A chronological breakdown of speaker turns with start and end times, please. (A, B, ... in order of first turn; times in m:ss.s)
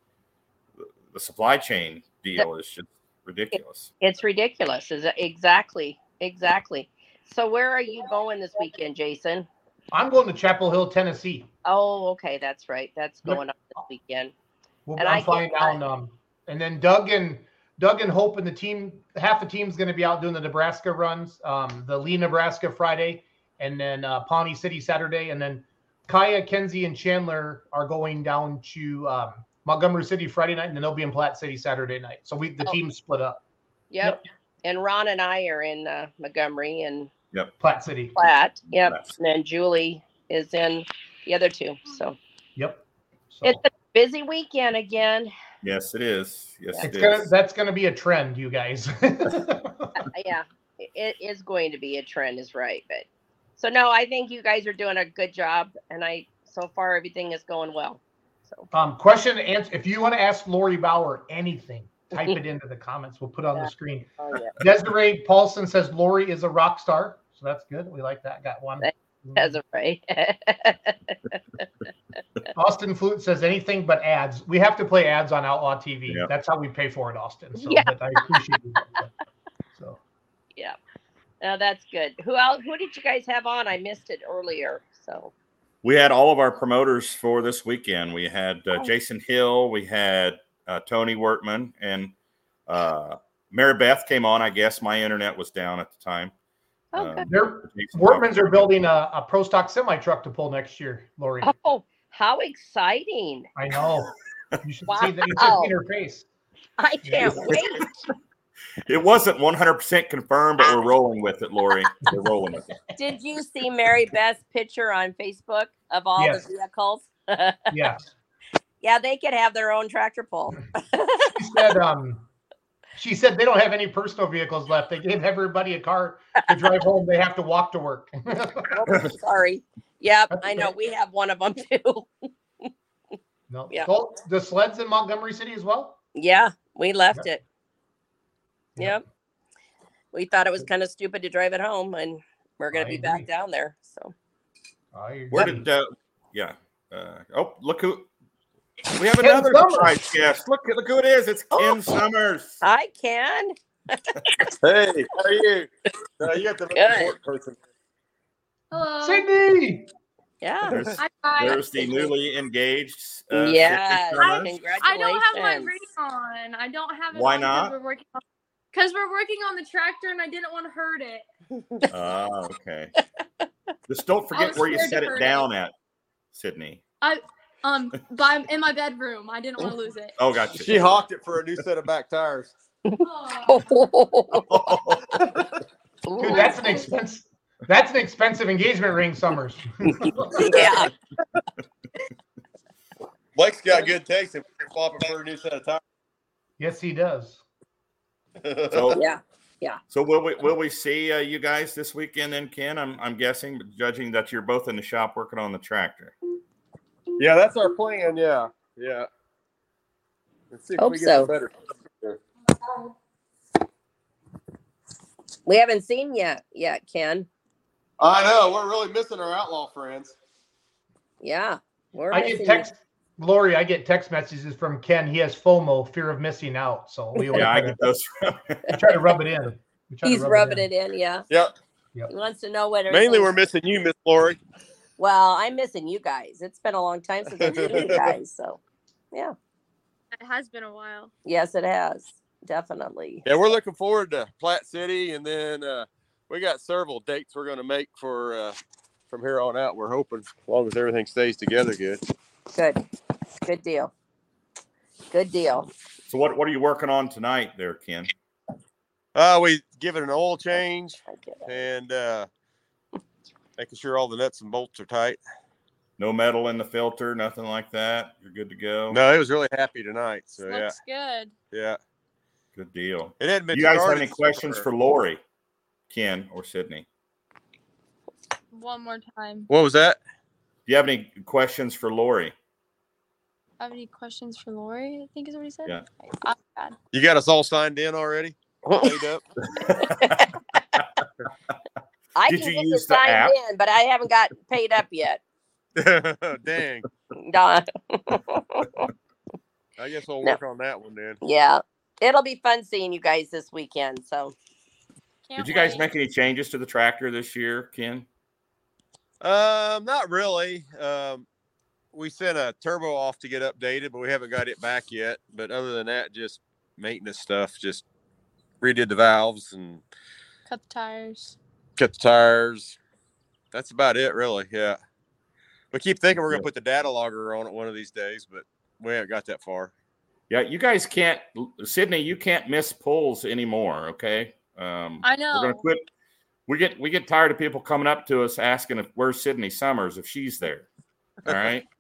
0:00.8-0:03.9 A
0:04.0-0:09.5 B
0:09.9-0:11.5 C
0:11.6-0:14.3 B
0:14.9-0:33.4 C
0:15.0-0:15.8 B
0:33.9-0:37.1 B
0:37.6-0:38.2 C
0:38.2-0:42.2 B
0:38.8-0:39.2 A
0:42.6-0:43.6 C
0:43.4-0:45.3 B
0:45.6-0:47.3 A
0:46.8-0:50.0 C
0:50.1-0:53.1 B
0:53.6-0:58.7 B
0:58.7-1:09.6 C
1:04.2-1:04.5 B
1:08.8-1:11.4 B
1:12.6-1:19.1 C
1:17.6-1:18.3 B
1:19.7-1:20.0 C
1:21.4-1:25.3 B
1:25.8-1:32.1 A
1:32.7-1:36.3 A
1:36.9-1:37.3 B
1:37.0-1:38.7 A
1:37.2-1:41.5 C
1:41.4-1:43.5 B
1:43.6-1:46.3 C
1:44.9-1:45.7 B
1:46.8-1:47.9 B
1:47.0-1:47.5 C
1:48.9-1:52.7 A
1:50.6-1:50.9 B
1:53.0-1:57.7 B
1:56.2-1:56.4 C
1:57.7-1:58.1 C
1:58.8-2:01.3 B
2:01.4-2:02.2 C
2:03.0-2:08.7 C
2:08.7-2:12.1 B
2:10.3-2:10.7 C
2:13.5-2:16.0 C
2:16.2-2:17.4 B
2:18.8-2:19.0 B
2:20.1-2:24.1 B
2:22.7-2:23.3 C
2:24.9-2:25.7 C
2:25.3-2:28.1 A
2:28.9-2:32.6 A
2:29.2-2:30.0 C
2:31.5-2:32.0 B
2:32.6-2:34.4 B
2:34.6-2:35.7 D
2:36.2-2:37.6 D
2:36.7-2:37.1 B
2:38.7-2:39.3 E
2:39.0-2:39.9 C
2:40.4-2:40.9 B
2:40.7-2:44.5 A
2:41.0-2:42.0 E
2:41.7-2:42.1 B
2:43.3-2:45.8 B
2:44.2-2:48.2 E
2:47.1-2:47.8 A
2:48.7-2:51.2 E
2:51.9-2:52.9 A
2:53.9-2:55.7 A
2:54.3-2:55.5 E
2:56.3-2:56.8 A
2:57.0-3:00.2 E
3:00.2-3:01.0 A
3:00.6-3:02.5 D
3:02.9-3:05.3 B
3:03.0-3:03.6 E
3:04.3-3:05.0 A
3:06.0-3:06.9 B
3:06.2-3:10.4 C
3:06.3-3:06.8 E
3:10.0-3:10.9 B
3:13.4-3:15.8 D
3:16.6-3:17.4 C
3:18.4-3:19.0 D
3:18.7-3:19.0 A
3:18.9-3:19.8 B
3:19.9-3:26.2 A
3:27.2-3:29.1 D
3:30.5-3:32.2 D
3:30.8-3:31.3 B
3:35.5-3:37.3 B
3:38.0-3:40.2 D
3:41.2-3:42.7 B
3:42.1-3:47.8 C
3:47.2-3:47.5 B
3:47.3-3:48.6 A
3:48.7-3:50.7 C
3:50.0-3:51.3 B
3:52.1-3:53.3 B
3:52.9-3:54.4 D
3:55.0-3:58.6 B
3:57.3-3:58.1 D
4:00.2-4:01.1 E
4:01.2-4:03.2 B
4:03.2-4:08.6 D
4:09.1-4:12.0 D
4:12.5-4:12.8 B
4:13.4-4:13.9 B
4:15.1-4:15.7 B
4:16.1-4:18.1 A
4:19.2-4:22.3 D
4:21.1-4:21.7 B
4:23.6-4:25.2 D
4:26.0-4:29.0 A
4:28.9-4:30.8 D
4:30.4-4:31.3 E
4:31.5-4:31.8 D
4:32.6-4:35.2 A
4:33.2-4:34.6 D
4:35.9-4:36.9 A
4:38.5-4:39.5 E
4:39.5-4:40.0 D
4:40.7-4:42.3 A
4:43.6-4:46.8 E
4:46.9-4:49.2 D
4:48.6-4:49.0 B
4:49.4-4:50.9 A
4:49.7-4:50.8 B
4:52.2-4:55.2 B
4:52.3-4:53.3 A
4:55.8-4:56.9 D
4:57.2-4:58.9 B
4:59.8-5:01.2 D
5:01.2-5:04.4 B
5:05.3-5:05.8 E
5:05.4-5:08.1 A
5:09.2-5:11.3 D
5:11.9-5:17.8 D
5:18.6-5:19.8 D
5:20.5-5:21.4 E
5:21.8-5:22.8 D
5:23.5-5:24.8 D
5:25.7-5:29.7 D
5:26.2-5:26.5 A
5:30.3-5:35.9 A
5:35.0-5:35.6 E
5:36.5-5:40.7 A
5:41.2-5:41.7 A